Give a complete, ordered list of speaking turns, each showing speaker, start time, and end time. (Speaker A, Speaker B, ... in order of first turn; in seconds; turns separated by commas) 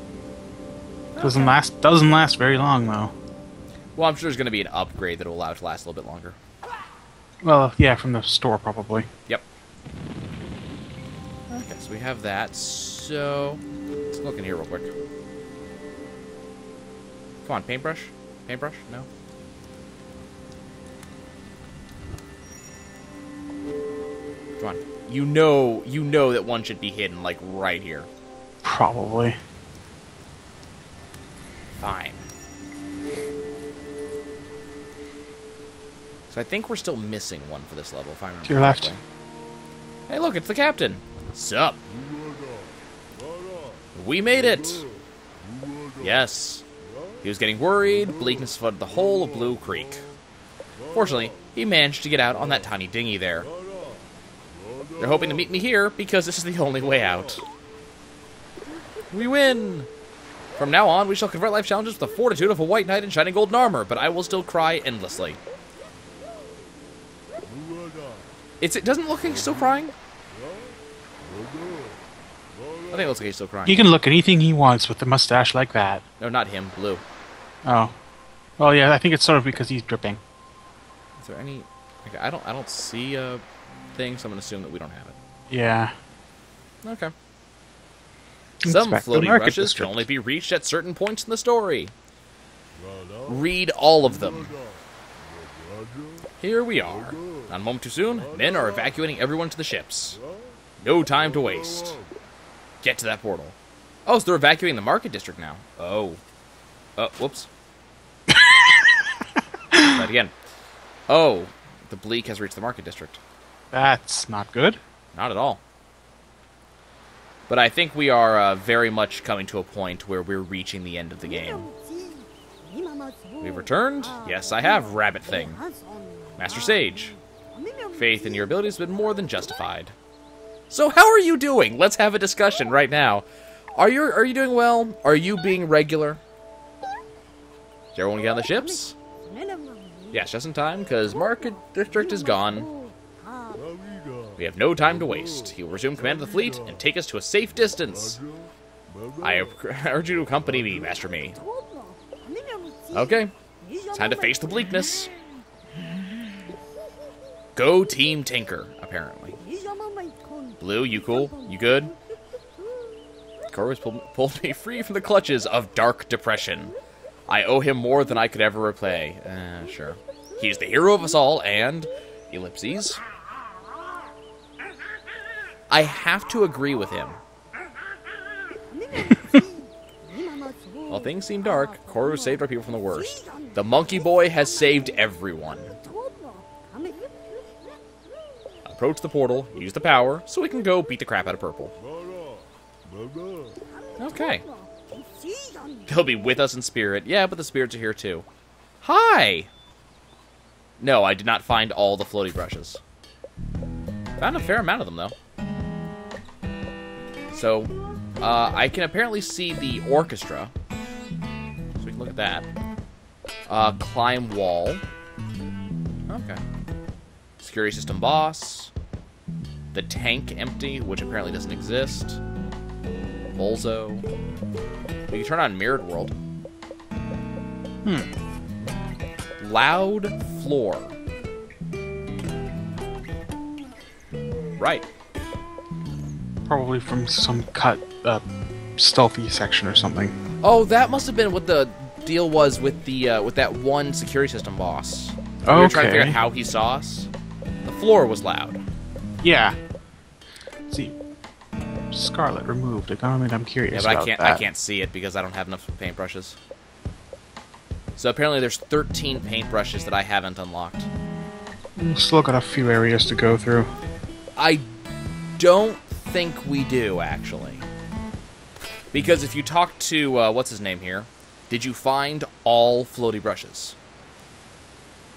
Speaker A: 1.1-1.6, Speaker B: 1.2-3.1, Speaker A: 4.0-6.4, Speaker B: 7.4-9.1, Speaker A: 11.5-14.9, Speaker A: 17.4-19.1, Speaker A: 24.6-28.1, Speaker B: 28.6-29.4, Speaker A: 31.8-32.3, Speaker A: 36.3-39.0, Speaker B: 38.5-39.0, Speaker A: 40.1-41.8, Speaker A: 44.0-44.9, Speaker A: 46.0-46.7, Speaker A: 47.2-50.0, Speaker A: 50.9-53.5, Speaker A: 55.0-57.5, Speaker A: 59.1-59.9, Speaker A: 60.6-65.4, Speaker A: 68.6-69.9, Speaker A: 72.9-73.8, Speaker B: 73.7-76.0, Speaker A: 76.2-77.0, Speaker B: 77.7-77.9, Speaker B: 78.6-80.2, Speaker A: 81.2-85.2, Speaker B: 85.5-85.9, Speaker A: 86.8-87.1, Speaker B: 88.6-90.1, Speaker A: 88.6-91.9, Speaker A: 93.3-94.6, Speaker A: 96.4-100.2, Speaker A: 100.8-102.0, Speaker A: 102.8-103.5, Speaker A: 104.1-106.2, Speaker A: 107.0-107.5, Speaker B: 108.3-108.8, Speaker A: 109.9-110.3, Speaker A: 111.1-113.2, Speaker B: 113.7-114.8, Speaker A: 115.1-115.6, Speaker A: 117.5-121.7, Speaker A: 123.4-125.6, Speaker A: 126.4-127.2, Speaker A: 127.9-129.9, Speaker A: 130.7-136.2, Speaker A: 137.9-139.0, Speaker A: 140.1-142.7, Speaker A: 144.4-148.2, Speaker A: 149.2-151.4, Speaker A: 152.9-153.3, Speaker A: 153.9-155.1, Speaker A: 157.6-159.4, Speaker A: 160.6-161.9, Speaker A: 163.5-166.8, Speaker A: 167.3-173.0, Speaker A: 175.7-177.2, Speaker A: 180.9-185.8, Speaker A: 188.7-191.7, Speaker A: 194.0-194.4, Speaker A: 195.9-198.3, Speaker A: 198.8-199.5, Speaker A: 200.8-202.8, Speaker A: 204.2-205.1, Speaker A: 207.3-210.5, Speaker A: 211.8-212.5, Speaker A: 213.5-214.8, Speaker A: 216.1-216.4, Speaker A: 217.4-218.7, Speaker A: 219.7-222.2, Speaker A: 223.3-224.1, Speaker A: 225.1-226.1, Speaker B: 227.8-228.1, Speaker A: 229.4-231.0, Speaker A: 234.6-234.9, Speaker B: 236.5-238.2, Speaker B: 238.8-240.2, Speaker A: 240.4-247.1, Speaker B: 245.5-246.2, Speaker A: 247.7-248.6, Speaker B: 249.2-249.6, Speaker B: 250.7-251.0, Speaker B: 251.9-254.4, Speaker A: 253.7-256.4, Speaker A: 258.0-260.9, Speaker B: 261.8-263.7, Speaker A: 264.4-264.7, Speaker A: 265.4-267.7, Speaker A: 268.9-273.8